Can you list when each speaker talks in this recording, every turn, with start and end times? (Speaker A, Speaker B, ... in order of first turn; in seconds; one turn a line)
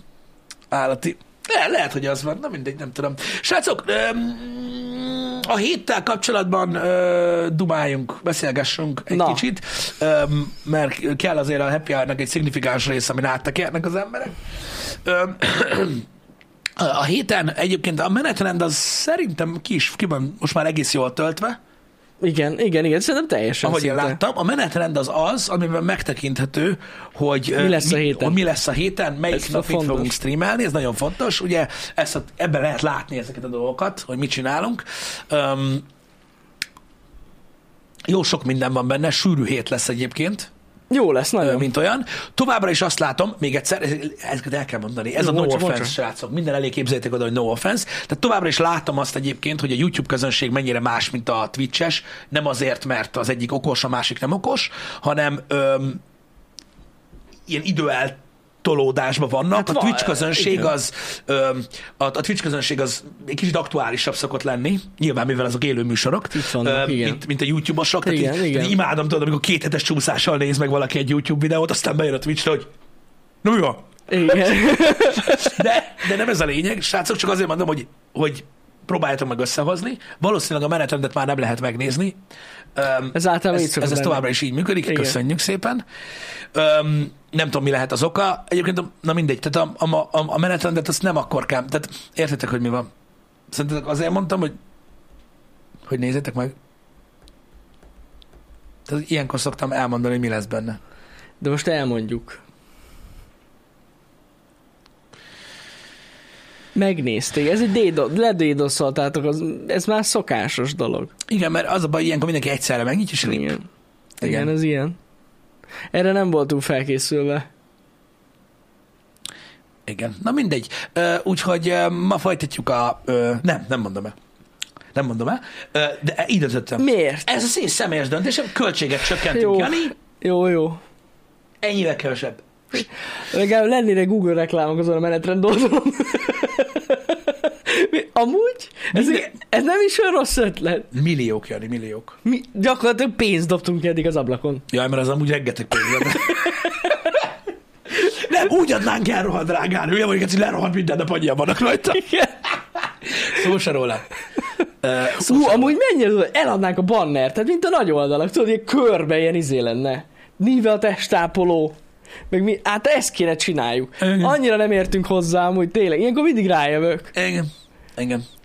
Speaker A: 0.7-16.0
Speaker B: 9.1-9.4
Speaker A: 16.8-21.6
Speaker B: 22.2-24.2
Speaker A: 23.6-35.8
Speaker B: 27.6-28.4
Speaker B: 29.3-30.1
Speaker A: 38.1-40.5
Speaker B: 40.9-41.7
Speaker A: 41.4-56.0
Speaker B: 45.2-45.9
Speaker A: 57.5-72.7
Speaker B: 59.5-60.7
Speaker B: 66.3-67.2
Speaker B: 68.0-68.7
Speaker A: 73.4-74.6
Speaker B: 74.1-75.6
Speaker A: 75.2-82.2
Speaker A: 82.7-85.8
Speaker B: 83.1-84.3
Speaker B: 84.8-85.2
Speaker A: 86.5-92.9
Speaker A: 93.5-94.5
Speaker A: 95.9-96.5
Speaker A: 98.8-100.8
Speaker B: 101.4-102.4
Speaker B: 106.7-111.1
Speaker A: 111.3-113.5
Speaker B: 113.2-113.6
Speaker A: 114.2-114.5
Speaker B: 114.2-115.0
Speaker B: 115.9-117.5
Speaker A: 119.8-124.2
Speaker A: 124.9-129.9
Speaker B: 126.8-127.3
Speaker B: 129.3-130.8
Speaker A: 131.6-132.8
Speaker B: 133.3-140.9
Speaker A: 138.9-139.3
Speaker A: 140.9-142.2
Speaker B: 142.2-144.6
Speaker A: 144.7-147.2
Speaker A: 147.9-152.1
Speaker B: 151.9-152.4
Speaker A: 153.0-154.0
Speaker A: 154.8-155.7
Speaker B: 155.1-161.8
Speaker B: 162.3-167.1
Speaker A: 164.0-164.3
Speaker A: 167.1-168.3